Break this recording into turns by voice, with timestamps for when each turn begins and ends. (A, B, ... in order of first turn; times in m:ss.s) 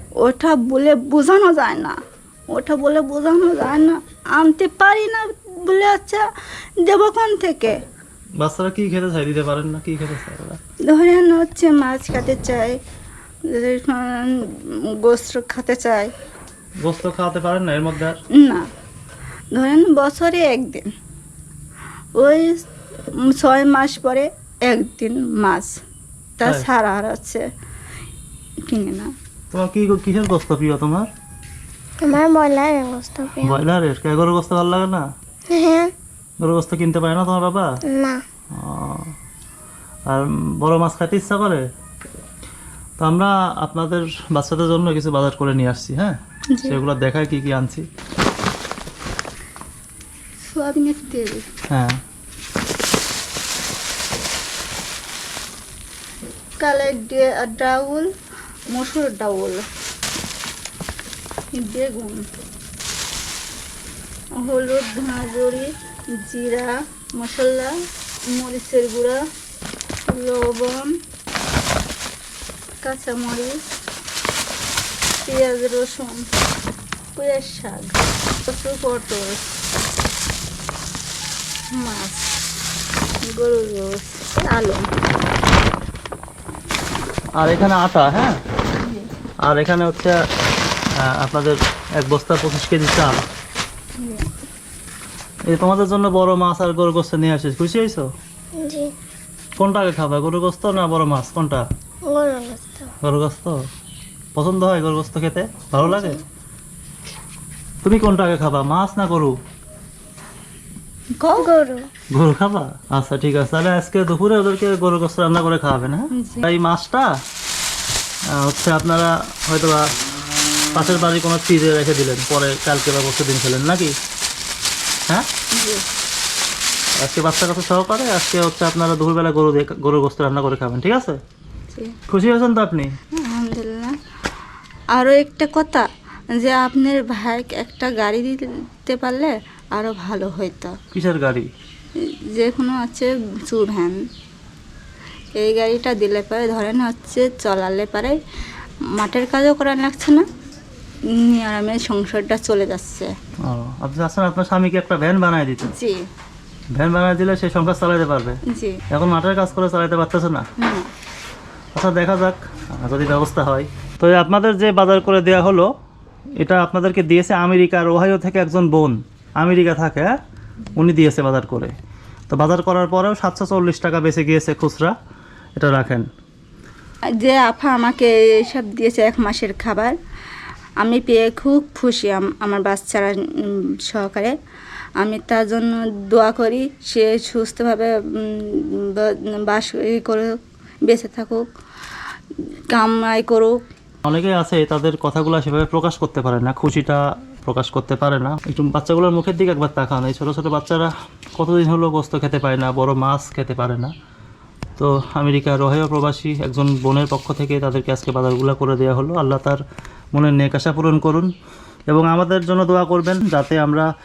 0:00.2-0:02.0 A
0:02.5-0:06.2 A
0:06.8-0:07.8 A
0:08.4-0:10.6 B
0:10.9-0:12.8 A
0:13.5-0:16.1 A
0:16.8-0:18.2 B
0:18.3-0:18.7 A
0:19.5-0:20.9 A
0:22.2-0:22.7 A
0:23.2-0:25.8 A
0:26.4-0:27.4 A
0:28.7-0:29.1 A
0:29.5-0:31.1 B
0:32.0-0:33.6 C
0:33.4-0:35.1 B
0:35.5-0:35.9 C
0:36.4-0:37.8 B
0:37.9-0:38.2 C
0:38.5-0:39.1 B
0:40.1-0:41.6 B
0:43.0-0:47.9 B
0:46.6-0:46.8 A
0:50.5-0:51.5 A
0:51.7-0:52.0 B
0:56.6-0:58.1 A
0:58.7-0:59.7 A
1:01.6-1:02.2 A
1:04.4-1:07.7 A
1:08.3-1:09.2 A
1:10.1-1:11.0 A
1:12.8-1:13.6 A
1:15.2-1:16.3 A
1:17.2-1:19.4 A
1:21.7-1:22.4 A
1:23.2-1:24.9 A
1:27.4-1:28.4 B
1:29.4-1:30.2 B
1:31.0-1:33.2 B
1:34.0-1:34.3 A
1:35.5-1:38.1 B
1:38.6-1:38.9 C
1:39.6-1:41.6 B
1:42.0-1:42.9 C
1:43.0-1:43.6 B
1:44.4-1:46.2 B
1:47.8-1:49.4 B
1:51.2-1:51.5 A
1:51.4-1:51.9 C
1:52.1-1:57.1 B
1:56.1-1:56.4 A
1:58.3-1:59.9 B
2:00.7-2:04.0 B
2:05.6-2:05.8 A
2:07.0-2:11.2 B
2:12.1-2:12.9 B
2:13.2-2:14.0 A
2:15.0-2:20.8 A
2:20.9-2:21.5 B
2:22.3-2:24.0 A
2:25.4-2:28.2 A
2:29.0-2:30.2 A
2:31.1-2:33.1 A
2:33.4-2:35.7 B
2:35.7-2:36.0 A
2:36.7-2:38.4 B
2:38.5-2:38.8 A
2:38.9-2:40.4 B
2:40.6-2:40.9 A
2:41.7-2:45.7 B
2:46.4-2:50.1 B
2:50.8-2:51.7 B
2:52.3-2:55.0 B
2:55.6-2:56.1 B
2:57.2-3:00.0 A
3:00.8-3:04.4 A
3:05.0-3:10.4 A
3:10.9-3:11.4 A
3:12.7-3:13.6 A
3:14.0-3:23.9 B
3:24.8-3:29.6 B
3:30.1-3:31.3 B
3:31.9-3:33.9 B